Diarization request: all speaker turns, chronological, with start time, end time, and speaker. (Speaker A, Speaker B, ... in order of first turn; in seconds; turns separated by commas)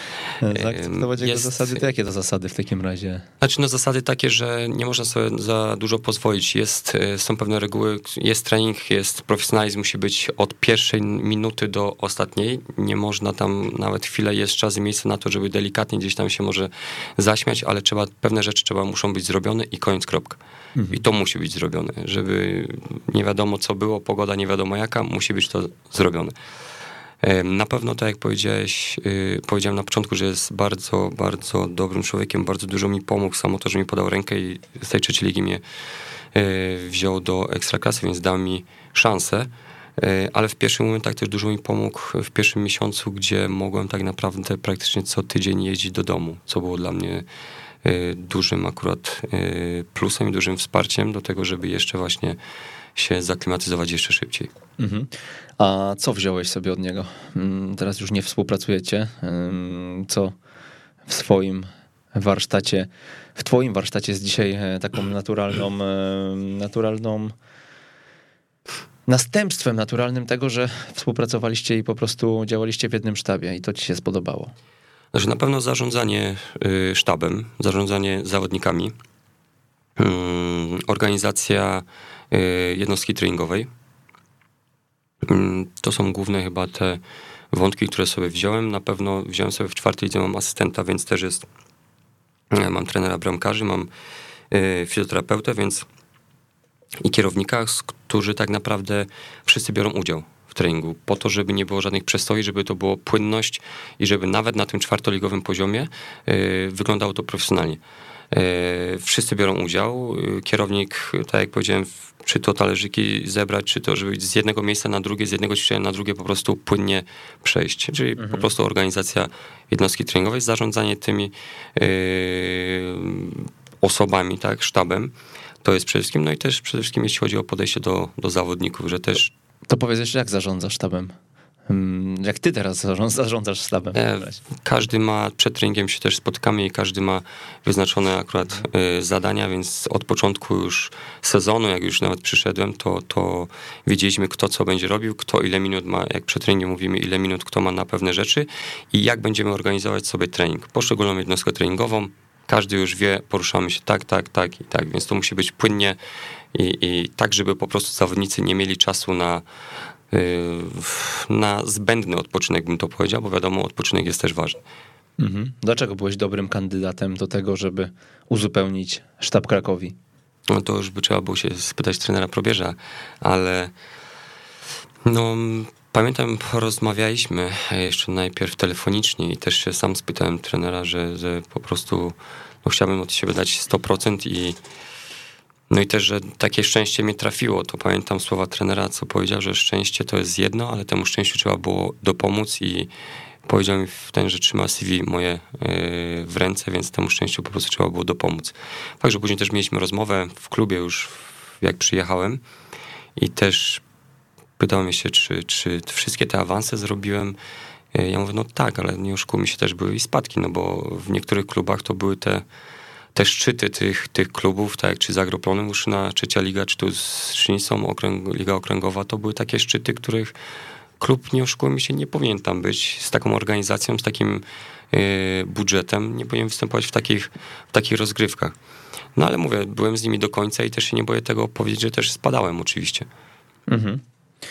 Speaker A: 0.4-3.2, Speaker B: 0.5-1.8, Speaker B: 3.4-20.4, Speaker A: 20.8-21.0, Speaker B: 20.9-26.3, Speaker B: 27.2-35.6, Speaker B: 36.3-47.2, Speaker B: 47.8-52.4, Speaker B: 53.0-54.5, Speaker A: 54.8-60.3, Speaker A: 61.0-67.3, Speaker A: 69.1-74.5, Speaker B: 75.1-78.9, Speaker B: 80.0-83.7, Speaker B: 85.2-87.0, Speaker B: 87.5-91.5, Speaker B: 92.5-93.9, Speaker B: 94.5-95.8, Speaker B: 97.0-107.8, Speaker B: 108.3-125.1, Speaker A: 118.2-118.5, Speaker B: 125.6-129.3, Speaker A: 129.7-131.1, Speaker A: 131.7-134.4, Speaker B: 133.9-156.0, Speaker B: 156.5-159.4, Speaker B: 160.1-164.6, Speaker A: 165.2-169.9, Speaker B: 170.5-173.7, Speaker B: 175.0-184.6, Speaker B: 185.7-192.9, Speaker B: 193.4-202.4, Speaker B: 203.2-203.8, Speaker B: 204.6-207.3, Speaker B: 207.9-212.4, Speaker B: 213.1-220.3, Speaker B: 221.0-228.5, Speaker B: 229.2-233.1, Speaker A: 233.7-234.0